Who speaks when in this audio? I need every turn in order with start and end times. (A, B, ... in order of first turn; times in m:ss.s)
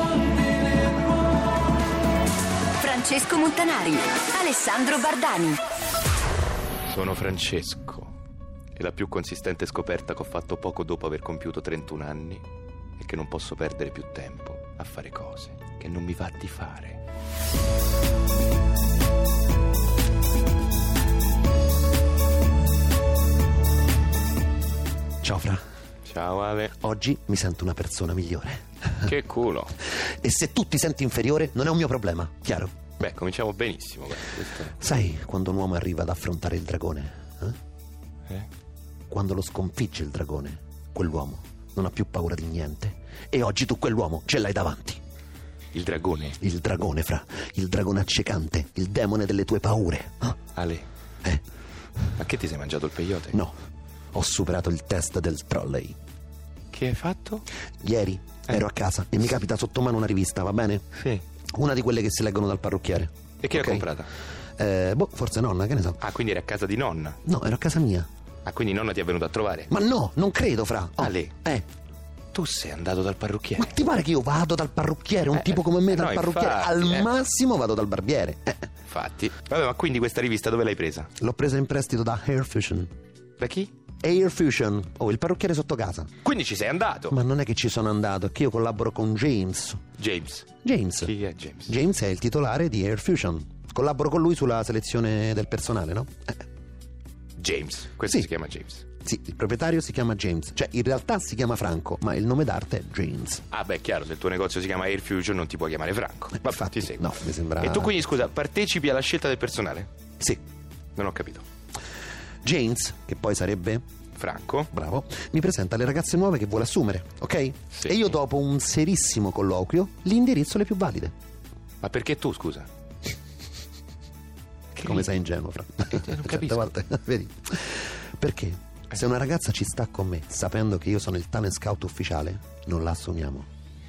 0:02.8-0:05.6 A
0:06.9-0:08.1 B
0:08.8-0:12.4 B
0:13.0-0:17.0 B
0:25.2-0:25.6 C
0:26.1-0:26.7 B
0:26.8-0:29.1 C
0:29.0-0:29.8 B
0:29.9-0:32.8 C
0:33.0-0:34.7 B
0:34.7-0:37.6 C
0:39.1-0:45.0 C
0:45.7-0:46.4 B
0:46.4-0:50.4 C
0:50.6-0:50.9 B
0:52.2-0:53.4 B
0:54.1-0:56.0 C
0:56.7-0:57.4 B
0:57.8-1:00.8 C
1:01.0-1:01.2 B
1:01.5-1:03.9 C
1:03.4-1:04.1 B
1:04.6-1:06.0 C
1:06.0-1:07.2 B
1:07.2-1:08.1 C
1:08.5-1:09.7 B
1:09.7-1:11.7 C
1:11.0-1:11.3 B
1:12.3-1:13.8 B
1:13.6-1:18.7 C
1:15.3-1:17.1 B
1:18.9-1:21.1 B
1:21.2-1:22.9 C
1:23.4-1:23.7 B
1:24.0-1:26.1 C
1:26.2-1:27.2 B
1:27.1-1:29.8 C
1:30.0-1:30.5 B
1:30.6-1:31.1 C
1:31.0-1:31.8 B
1:31.7-1:36.4 C
1:37.4-1:38.8 B
1:39.0-1:43.4 C
1:43.5-1:49.9 B
1:46.4-1:48.0 C
1:51.0-1:51.4 B
1:52.4-1:53.8 C
1:54.2-1:54.7 B
1:54.7-2:01.1 C
1:57.8-1:58.0 B
2:01.8-2:02.7 B
2:04.8-2:05.1 B
2:04.8-2:13.5 C
2:05.9-2:06.7 B